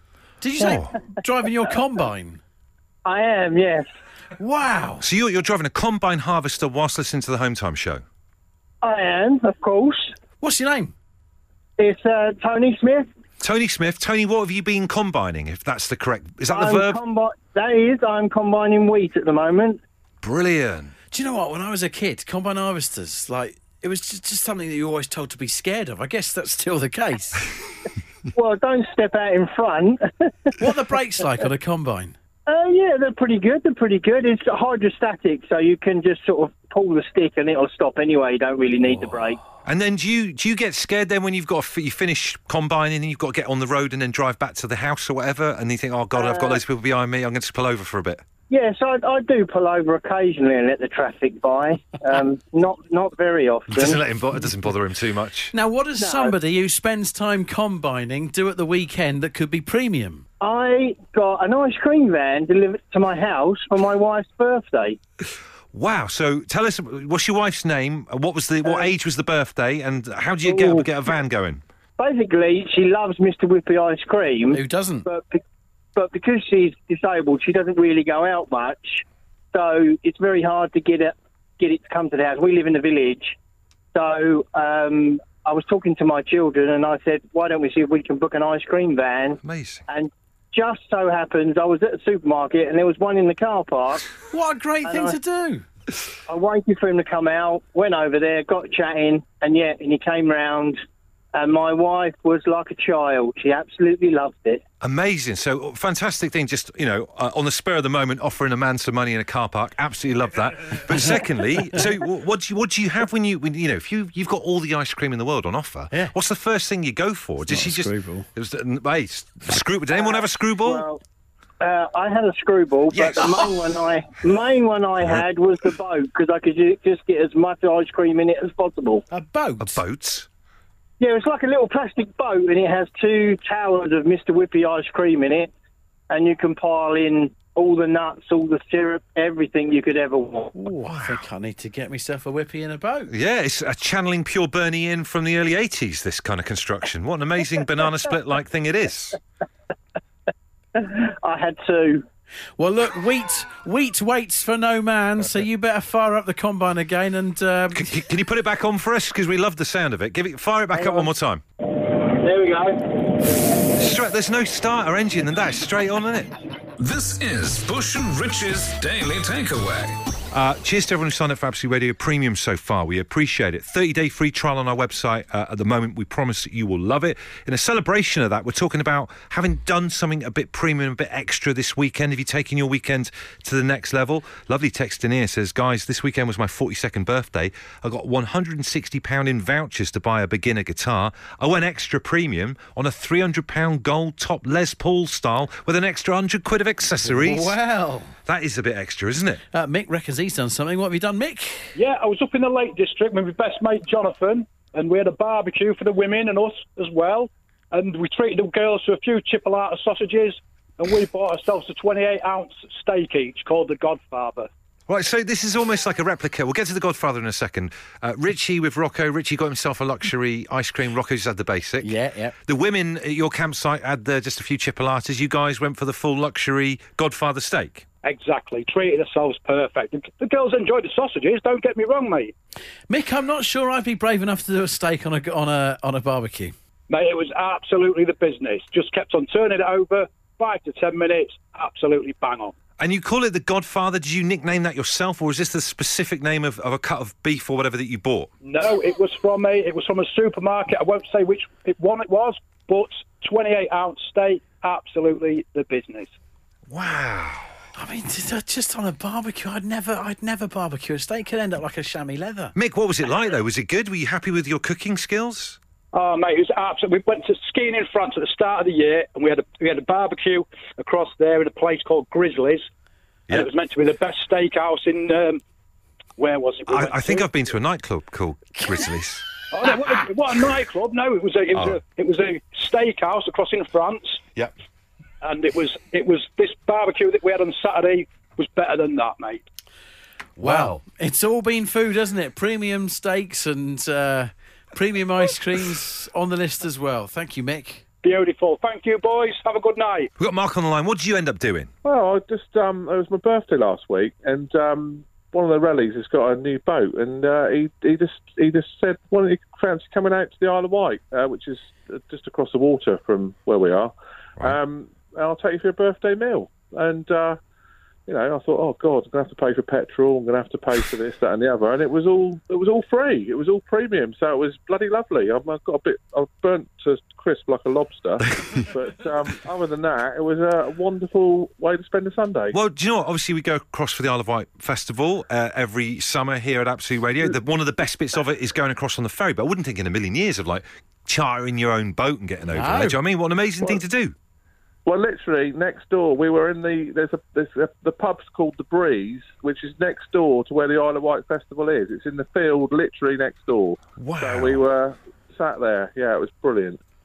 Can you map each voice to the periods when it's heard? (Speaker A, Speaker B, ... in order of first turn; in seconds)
Speaker A: 0.4-2.4, 4.4-5.1, 10.4-10.9, 21.1-27.5, 30.6-32.2, 55.5-60.2, 74.5-75.1, 94.3-95.7, 117.5-118.3, 129.1-129.8, 140.6-143.1, 152.6-157.9, 197.0-198.1, 199.5-201.7, 221.8-222.4, 232.9-236.5, 257.8-262.5, 290.4-297.8, 342.5-343.0
Speaker B: 0.6-0.9, 5.0-8.0, 13.4-17.0, 20.2-20.9, 39.6-48.2, 53.7-55.5, 65.7-71.6, 89.4-89.8, 104.8-120.8, 122.9-123.5, 129.6-130.3, 140.9-141.2, 143.1-149.2, 157.8-161.4, 163.8-166.3, 170.3-197.5, 198.3-199.4, 214.9-221.9, 222.5-227.9, 242.8-248.3, 256.7-257.5, 262.6-265.6, 276.7-279.3, 290.4-290.8, 300.2-301.7, 332.5-344.1, 354.0-354.6
Speaker C: 3.0-3.9, 8.8-10.2, 11.8-13.1, 16.5-19.8, 28.3-30.5, 32.5-39.4, 46.1-46.6, 48.5-54.0, 56.0-56.3, 60.4-65.0, 70.5-70.9, 72.0-75.4, 76.0-83.4, 84.0-94.1, 94.8-95.2, 96.3-100.8, 101.3-104.6, 119.9-121.0, 121.6-129.0, 131.0-135.5, 136.1-140.5, 150.8-152.1, 160.7-161.1, 162.2-162.7
Speaker D: 166.8-170.0
Speaker E: 201.8-214.5, 228.0-232.3, 236.9-242.5, 248.4-256.1, 265.9-272.7, 273.3-275.4, 276.2-277.3, 279.5-284.2, 285.2-289.4, 298.0-300.1
Speaker F: 301.8-317.4, 318.1-332.6, 344.9-356.8